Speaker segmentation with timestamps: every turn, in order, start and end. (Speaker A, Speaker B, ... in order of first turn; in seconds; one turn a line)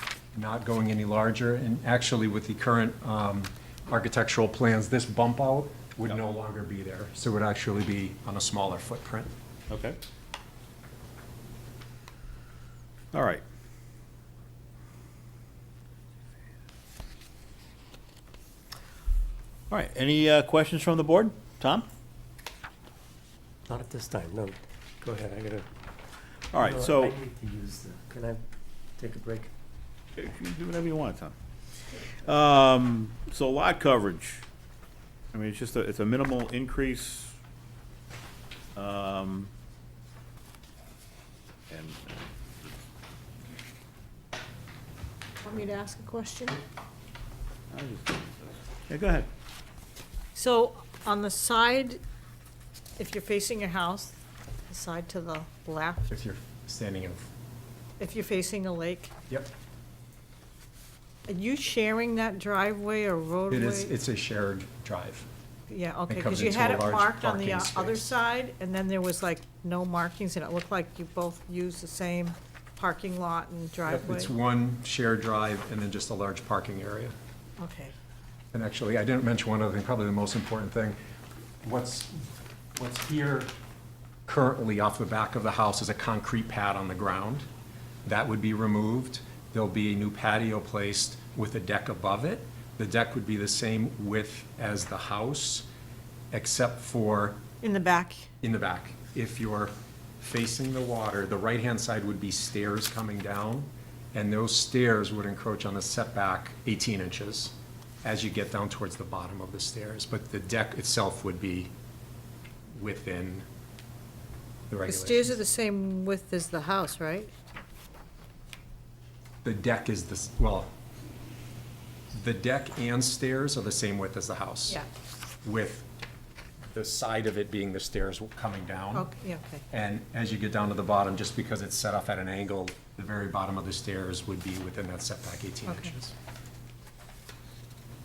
Speaker A: 0.3-9.3
Speaker B: 9.7-10.0
Speaker B: 13.1-13.4
Speaker B: 19.7-21.9
Speaker C: 23.7-25.7
Speaker B: 26.5-27.2
Speaker C: 26.6-28.4
Speaker C: 29.0-29.5
Speaker B: 30.2-31.4
Speaker B: 32.0-34.5
Speaker B: 35.3-37.4
Speaker B: 38.8-39.5
Speaker B: 41.7-42.7
Speaker D: 45.4-46.6
Speaker B: 47.7-49.3
Speaker D: 50.4-52.0
Speaker D: 53.0-54.2
Speaker D: 54.7-56.1
Speaker A: 56.1-57.3
Speaker D: 58.0-59.1
Speaker D: 61.3-63.9
Speaker A: 63.5-65.3
Speaker D: 65.7-74.3
Speaker A: 66.1-68.2
Speaker A: 73.9-77.2
Speaker D: 77.6-77.9
Speaker A: 78.5-81.0
Speaker A: 81.6-83.5
Speaker A: 84.3-87.5
Speaker A: 88.0-95.7
Speaker A: 96.3-97.4
Speaker D: 97.6-98.3
Speaker A: 98.4-111.7
Speaker A: 112.7-113.5
Speaker A: 114.7-115.4
Speaker D: 114.9-117.3
Speaker A: 119.4-120.7
Speaker A: 122.1-124.8
Speaker A: 125.4-125.9
Speaker A: 126.7-129.1
Speaker D: 128.9-129.6
Speaker A: 129.7-136.1
Speaker D: 135.7-135.9